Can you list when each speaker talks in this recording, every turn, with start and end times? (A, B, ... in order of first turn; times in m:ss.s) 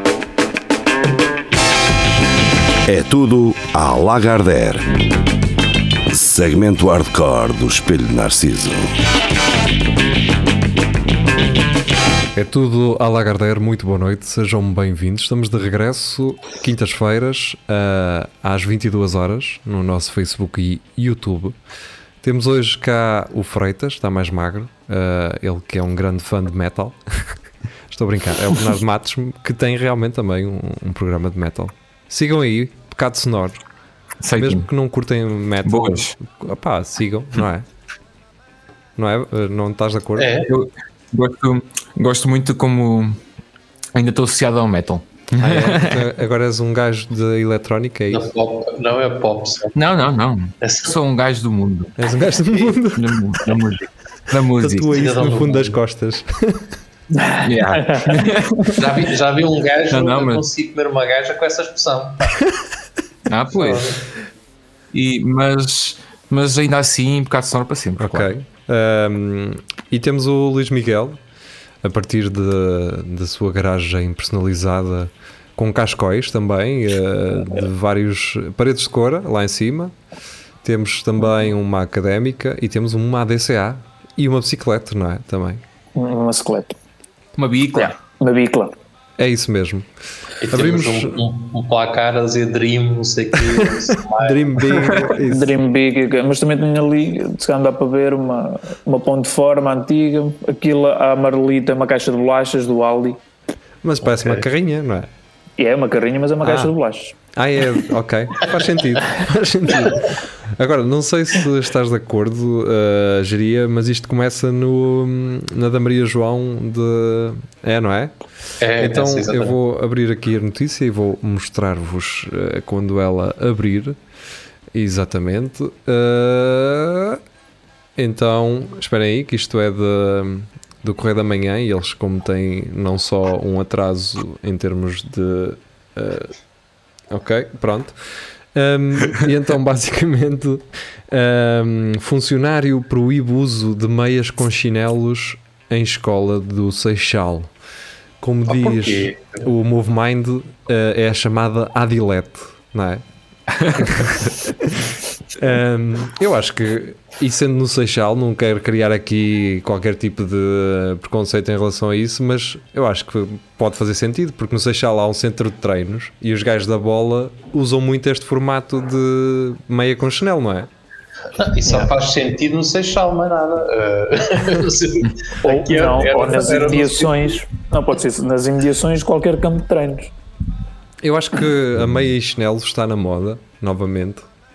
0:02.9-0:05.0 A
0:06.1-0:08.9 A
0:12.3-0:21.6 B
0:22.2-0:27.4 B
0:27.9-0:33.6 B
0:34.2-0:34.7 C
0:34.4-0:37.6 B
0:35.6-0:36.1 C
0:39.0-0:40.3 B
0:40.2-0:40.5 D
0:40.5-0:43.2 C
0:43.9-0:46.0 C
0:45.4-0:48.3 B
0:48.1-0:49.7 D
0:49.7-0:52.0 C
0:50.6-0:50.9 D
0:52.0-0:53.4 B
0:52.9-0:55.0 C
0:54.6-0:56.6 B
0:54.9-0:55.8 D
0:57.1-0:58.2 E
0:57.4-0:59.0 C
0:58.8-1:02.4 D
0:59.9-1:00.4 C
1:03.3-1:04.0 C
1:03.5-1:04.0 D
1:04.9-1:08.3 C
1:08.0-1:11.2 B
1:11.8-1:19.9 B
1:20.6-1:25.6 B
1:25.9-1:26.8 E
1:27.4-1:27.9 C
1:27.8-1:28.7 E
1:29.2-1:29.9 B
1:30.4-1:35.2 D
1:30.5-1:31.2 B
1:33.5-1:35.6 B
1:35.2-1:43.2 E
1:43.8-1:45.1 B
1:44.0-1:44.4 D
1:45.6-1:47.1 E
1:46.4-1:46.7 B
1:47.3-1:58.1 B
1:58.6-1:59.6 D
1:58.8-2:04.0 B
2:04.7-2:07.2 B
2:08.0-2:16.3 B
2:17.1-2:18.0 B
2:18.5-2:27.5 B
2:28.2-2:33.0 B
2:28.5-2:29.4 D
2:33.5-2:34.3 C
2:33.7-2:34.8 B
2:35.4-2:50.7 B
2:51.4-2:57.3 D
2:51.6-2:51.9 E
2:55.4-3:00.1 E
3:01.0-3:04.3 B